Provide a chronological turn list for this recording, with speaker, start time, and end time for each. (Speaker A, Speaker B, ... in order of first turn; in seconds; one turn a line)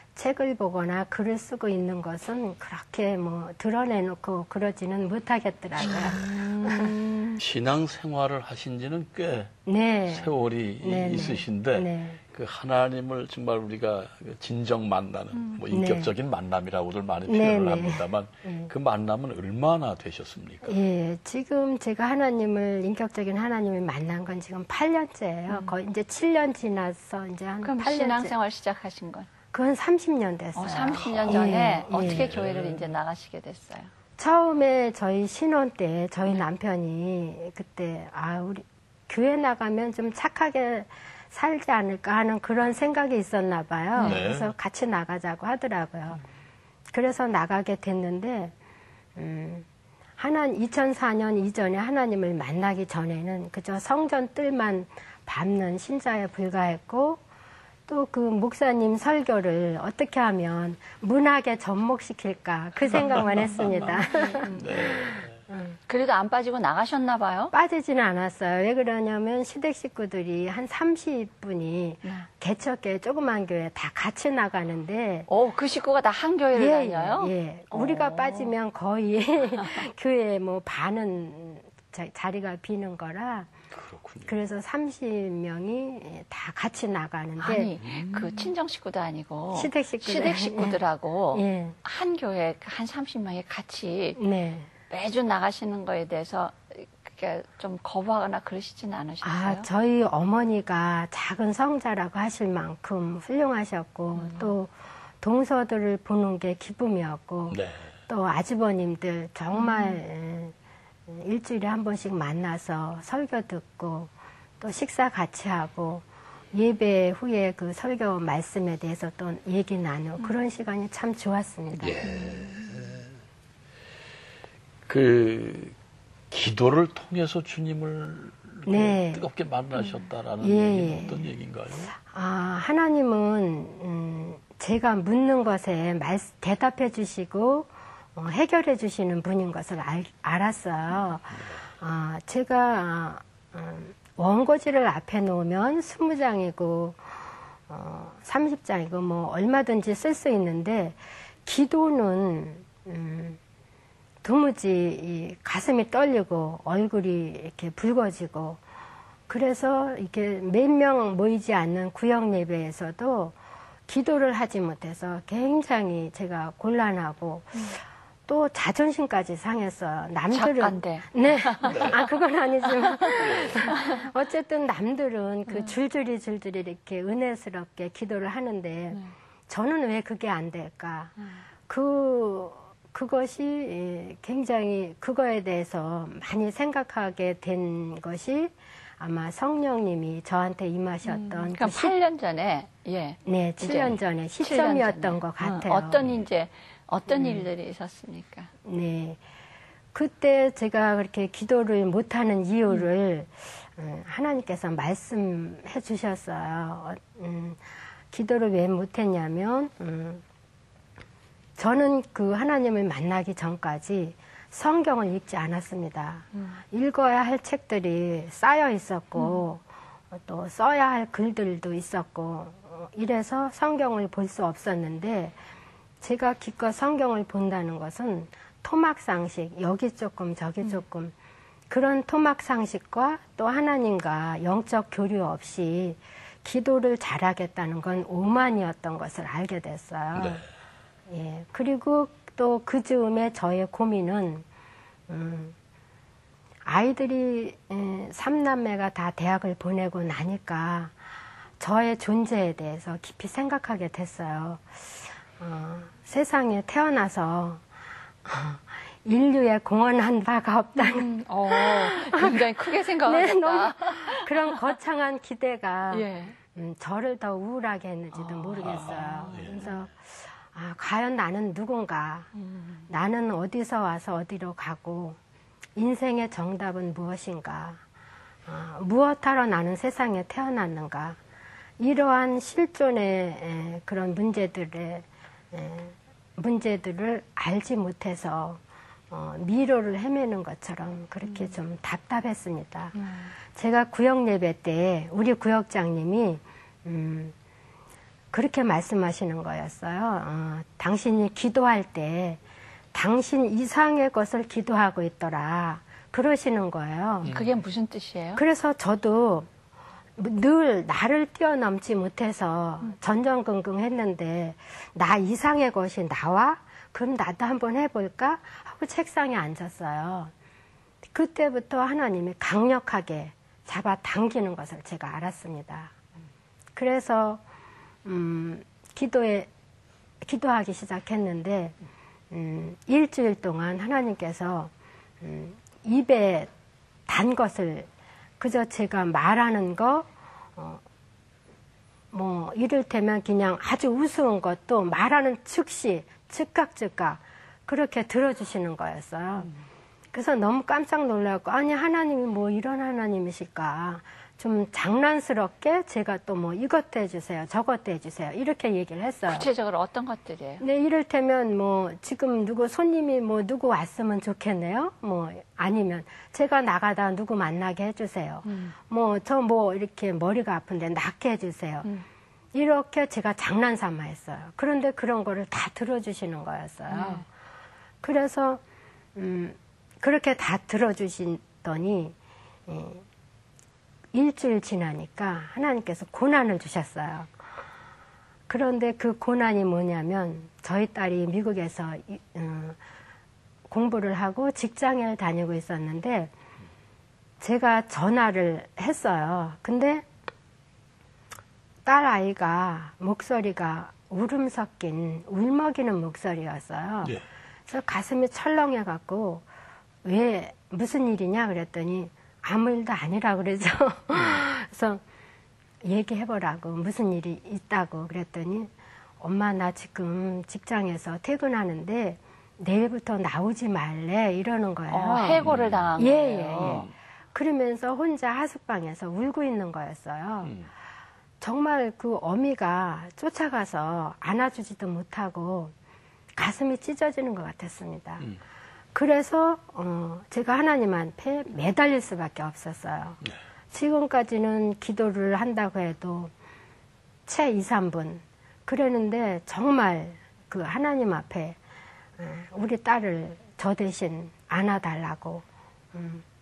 Speaker A: 0.2-7.0
Speaker B: 5.8-7.4
Speaker C: 7.4-9.5
Speaker A: 9.7-12.2
Speaker C: 10.1-20.8
Speaker A: 15.7-16.1
Speaker A: 17.3-18.7
Speaker A: 20.6-28.3
Speaker B: 25.5-25.8
Speaker B: 27.6-29.3
Speaker A: 29.5-32.3
Speaker B: 30.6-33.9
Speaker C: 31.0-32.9
Speaker A: 34.2-46.2
Speaker B: 43.9-44.2
Speaker C: 44.0-44.5
Speaker A: 46.9-48.5
Speaker A: 49.2-49.7
Speaker A: 50.2-57.2
Speaker A: 57.9-65.8
Speaker C: 62.9-65.4
Speaker B: 63.8-64.7
Speaker B: 65.9-67.5
Speaker A: 67.5-75.3
Speaker B: 75.3-78.5
Speaker A: 76.5-83.5
Speaker C: 83.7-84.3
Speaker A: 84.3-87.7
Speaker B: 87.4-94.2
Speaker C: 87.8-88.5
Speaker A: 89.5-90.8
Speaker A: 91.3-91.8
Speaker A: 94.2-94.7
Speaker B: 94.9-99.7
Speaker A: 99.2-110.5
Speaker B: 104.2-104.5
Speaker C: 107.5-107.9
Speaker B: 109.5-110.0
Speaker A: 111.1-122.0
Speaker C: 121.8-123.0
Speaker C: 124.9-125.8
Speaker C: 126.3-131.9
Speaker A: 128.7-129.2
Speaker A: 130.4-131.3
Speaker A: 132.0-153.4
Speaker C: 141.3-141.6
Speaker A: 154.2-158.6
Speaker A: 159.3-181.1
Speaker B: 170.3-172.1
Speaker C: 171.7-171.9
Speaker B: 172.7-174.1
Speaker C: 173.2-173.7
Speaker B: 175.5-175.7
Speaker A: 181.7-192.0
Speaker B: 191.1-198.5
Speaker A: 193.2-196.0
Speaker A: 197.1-197.5
Speaker A: 198.7-199.2
Speaker A: 199.9-210.2
Speaker A: 211.6-225.4
Speaker A: 226.0-231.1
Speaker A: 231.7-240.4
Speaker C: 240.2-240.4
Speaker A: 241.1-244.4
Speaker A: 245.1-245.6
Speaker A: 246.6-251.0
Speaker A: 251.6-257.6
Speaker A: 258.2-272.3
Speaker B: 260.8-264.6
Speaker B: 265.9-266.4
Speaker B: 268.1-269.5
Speaker C: 268.6-269.8
Speaker B: 272.4-272.9
Speaker A: 272.9-275.2
Speaker A: 275.8-277.8
Speaker A: 278.5-281.2
Speaker A: 281.8-293.0
Speaker B: 293.0-293.3
Speaker A: 293.5-297.4
Speaker A: 298.3-302.4
Speaker A: 302.9-307.3
Speaker B: 307.2-308.4
Speaker A: 308.4-309.5
Speaker A: 310.2-320.3
Speaker A: 321.1-325.9
Speaker A: 326.8-327.4
Speaker A: 328.0-329.5
Speaker A: 330.2-331.8
Speaker A: 332.3-336.5
Speaker A: 337.1-340.8
Speaker A: 342.1-349.5
Speaker A: 350.1-359.5
Speaker B: 359.3-360.6
Speaker A: 360.6-371.9
Speaker B: 368.4-368.8
Speaker A: 372.5-377.2
Speaker B: 376.9-377.2
Speaker A: 378.0-378.6
Speaker A: 379.1-382.1
Speaker A: 382.7-383.0
Speaker A: 384.1-387.3
Speaker A: 388.5-392.8
Speaker A: 393.7-396.3
Speaker A: 397.4-400.1
Speaker A: 401.9-407.2
Speaker A: 407.7-409.4
Speaker A: 410.0-415.0
Speaker A: 415.8-430.6
Speaker B: 424.9-426.9
Speaker C: 425.4-425.9
Speaker C: 426.6-426.9
Speaker A: 431.4-435.7
Speaker A: 436.4-438.3
Speaker A: 438.9-443.2
Speaker A: 443.7-446.3
Speaker A: 447.3-451.6
Speaker A: 452.2-456.2